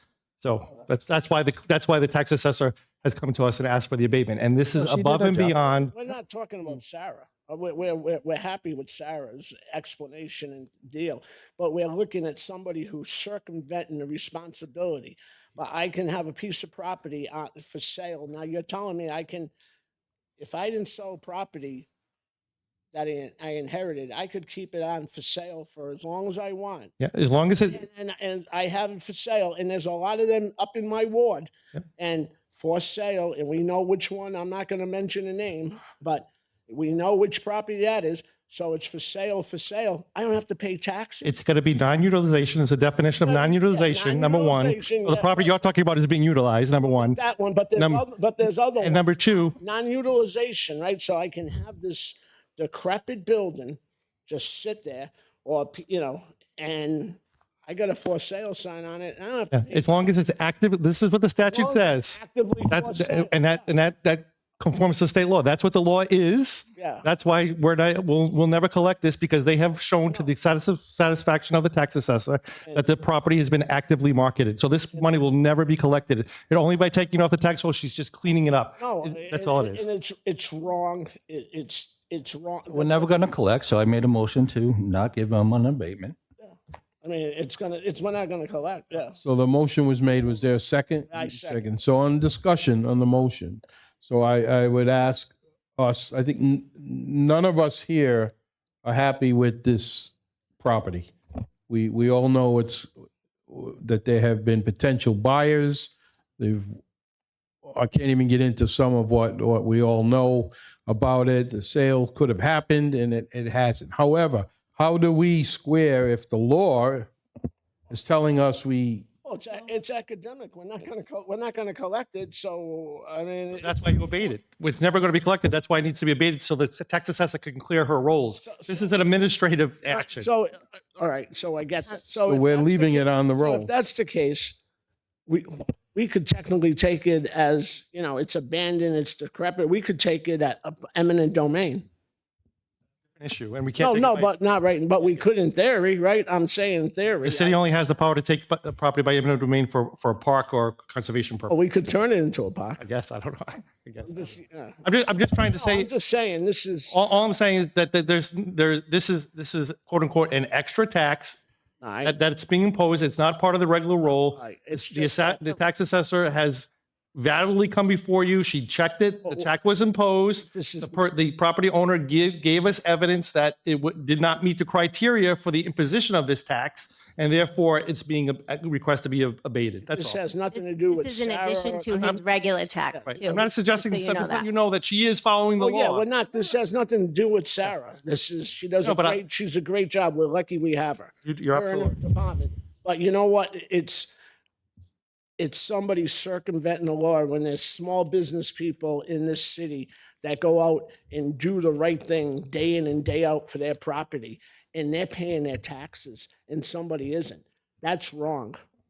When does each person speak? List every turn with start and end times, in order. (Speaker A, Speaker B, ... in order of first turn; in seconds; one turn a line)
Speaker A: 0.4-5.9
Speaker B: 4.8-19.5
Speaker B: 20.4-21.9
Speaker B: 22.9-26.9
Speaker A: 27.0-27.8
Speaker B: 27.7-41.3
Speaker A: 41.2-47.2
Speaker B: 43.2-45.5
Speaker B: 46.9-60.1
Speaker A: 47.8-48.0
Speaker A: 48.8-49.6
Speaker A: 59.5-79.9
Speaker B: 61.4-63.7
Speaker B: 66.8-67.0
Speaker B: 70.0-70.3
Speaker B: 78.8-83.2
Speaker C: 82.7-86.1
Speaker B: 86.4-89.2
Speaker D: 89.2-101.1
Speaker B: 91.1-91.7
Speaker D: 101.7-102.9
Speaker D: 103.5-106.8
Speaker D: 107.6-117.1
Speaker D: 117.9-119.0
Speaker B: 119.2-124.3
Speaker A: 123.5-130.3
Speaker B: 128.4-129.0
Speaker B: 129.9-134.6
Speaker D: 132.2-133.7
Speaker B: 135.3-141.8
Speaker A: 143.2-144.3
Speaker B: 143.8-147.6
Speaker A: 147.2-151.6
Speaker B: 151.5-152.8
Speaker A: 152.8-155.9
Speaker B: 154.0-154.8
Speaker B: 155.5-156.9
Speaker A: 156.9-161.4
Speaker B: 161.8-162.1
Speaker A: 162.0-180.2
Speaker B: 164.3-165.6
Speaker B: 170.5-171.0
Speaker B: 179.9-182.1
Speaker E: 180.5-184.5
Speaker A: 181.9-182.2
Speaker A: 183.1-186.0
Speaker B: 185.6-194.1
Speaker A: 188.8-189.2
Speaker A: 191.2-191.9
Speaker B: 195.4-208.6